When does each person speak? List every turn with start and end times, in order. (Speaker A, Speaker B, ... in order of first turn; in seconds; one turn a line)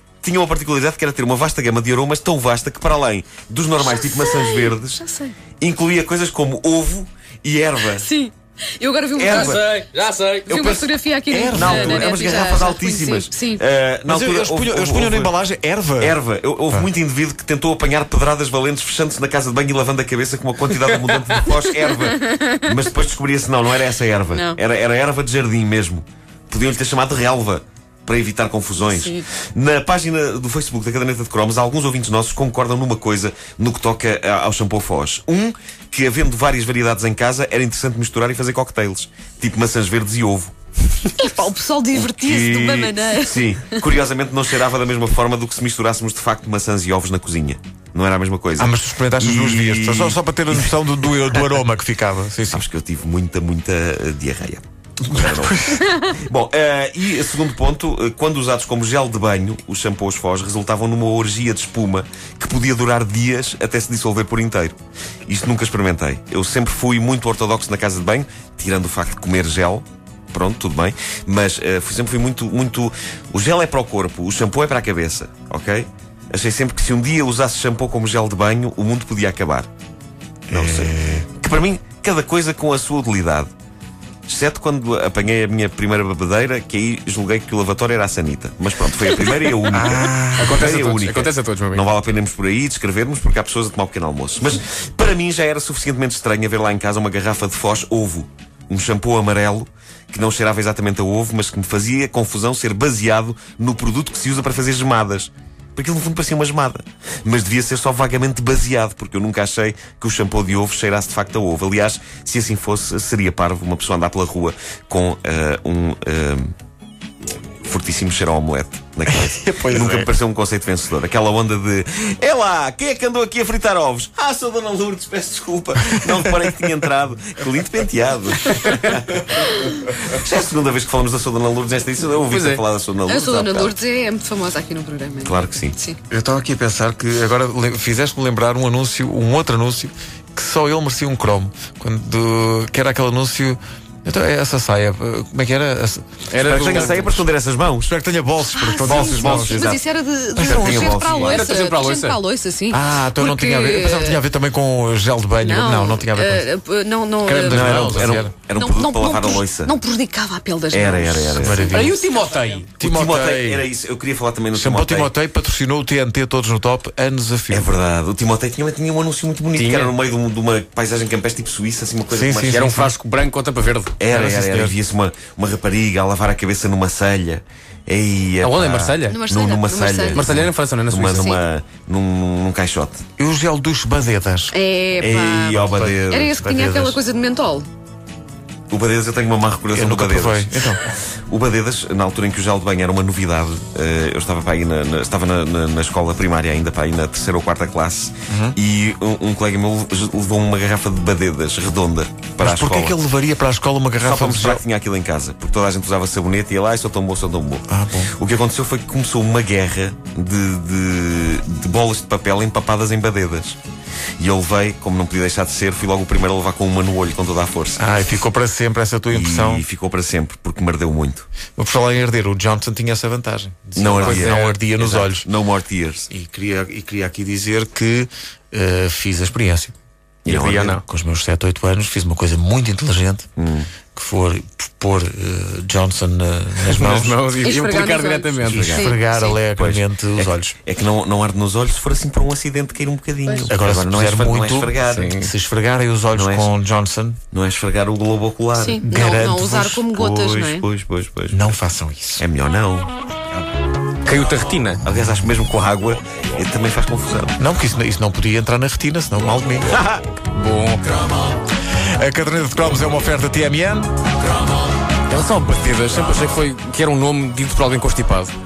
Speaker A: 0.2-5.0
Speaker B: 3.8-5.3
Speaker A: 5.6-8.1
Speaker B: 7.9-9.7
Speaker A: 9.2-9.7
Speaker C: 9.3-10.5
Speaker B: 10.5-13.6
Speaker A: 10.5-15.3
Speaker D: 11.3-12.1
Speaker D: 14.1-16.2
Speaker A: 16.0-40.5
Speaker B: 21.5-22.7
Speaker B: 24.3-24.6
Speaker B: 28.9-29.3
Speaker B: 41.1-43.8
Speaker A: 41.9-50.7
Speaker D: 48.6-52.6
Speaker A: 52.5-79.7
Speaker D: 55.0-55.9
Speaker D: 80.5-81.3
Speaker A: 80.5-83.5
Speaker A: 84.3-116.5
Speaker D: 89.7-90.7
Speaker C: 90.4-91.9
Speaker A: 117.6-133.8
Speaker D: 119.1-120.1
Speaker C: 132.2-132.6
Speaker B: 133.1-136.0
Speaker A: 135.2-135.8
Speaker D: 136.1-147.2
Speaker C: 146.3-147.1
Speaker A: 146.4-147.9
Speaker D: 147.8-149.7
Speaker B: 148.6-154.2
Speaker A: 148.8-149.8
Speaker D: 150.3-151.1
Speaker A: 150.4-151.4
Speaker C: 151.1-152.2
Speaker D: 152.7-156.5
Speaker B: 155.4-157.8
Speaker C: 157.2-158.3
Speaker D: 157.4-158.3
Speaker A: 157.5-159.7
Speaker B: 158.5-162.0
Speaker A: 160.7-161.9
Speaker D: 161.4-162.0
Speaker C: 161.7-162.7
Speaker D: 162.8-163.6
Speaker A: 162.8-165.1
Speaker D: 164.5-167.7
Speaker A: 167.5-172.7
Speaker C: 169.5-169.9
Speaker D: 172.1-172.9
Speaker C: 172.5-173.9
Speaker A: 174.0-183.0
Speaker D: 174.1-174.8
Speaker C: 178.4-179.2
Speaker B: 179.1-180.4
Speaker C: 180.1-181.3
Speaker B: 181.1-181.4
Speaker D: 183.2-184.5
Speaker B: 184.5-187.7
Speaker A: 185.0-186.5
Speaker D: 186.4-186.9
Speaker A: 188.7-203.0
Speaker D: 189.7-190.8
Speaker D: 198.3-198.6
Speaker D: 202.4-204.6
Speaker A: 204.0-213.6
Speaker D: 207.7-208.1
Speaker A: 214.2-217.8
Speaker D: 217.8-219.6
Speaker A: 219.1-221.3
Speaker D: 221.6-225.2
Speaker A: 223.8-226.1
Speaker C: 223.8-224.5
Speaker D: 226.1-229.7
Speaker A: 230.2-230.8
Speaker C: 230.2-230.8
Speaker D: 230.8-233.3
Speaker A: 233.3-233.7
Speaker D: 233.9-237.2
Speaker C: 236.6-238.8
Speaker B: 237.4-239.4
Speaker A: 238.4-239.0
Speaker D: 238.6-240.5
Speaker A: 239.5-245.2
Speaker D: 243.5-247.2
Speaker C: 244.8-245.3
Speaker A: 246.1-246.5
Speaker A: 247.3-248.8
Speaker B: 248.5-250.7
Speaker D: 248.8-249.9
Speaker A: 249.9-251.5
Speaker D: 251.3-252.2
Speaker A: 252.2-252.9
Speaker C: 254.0-254.8
Speaker A: 254.8-257.4
Speaker D: 257.4-259.8
Speaker A: 259.6-260.1
Speaker C: 260.3-260.8
Speaker D: 261.9-263.9
Speaker C: 265.1-268.3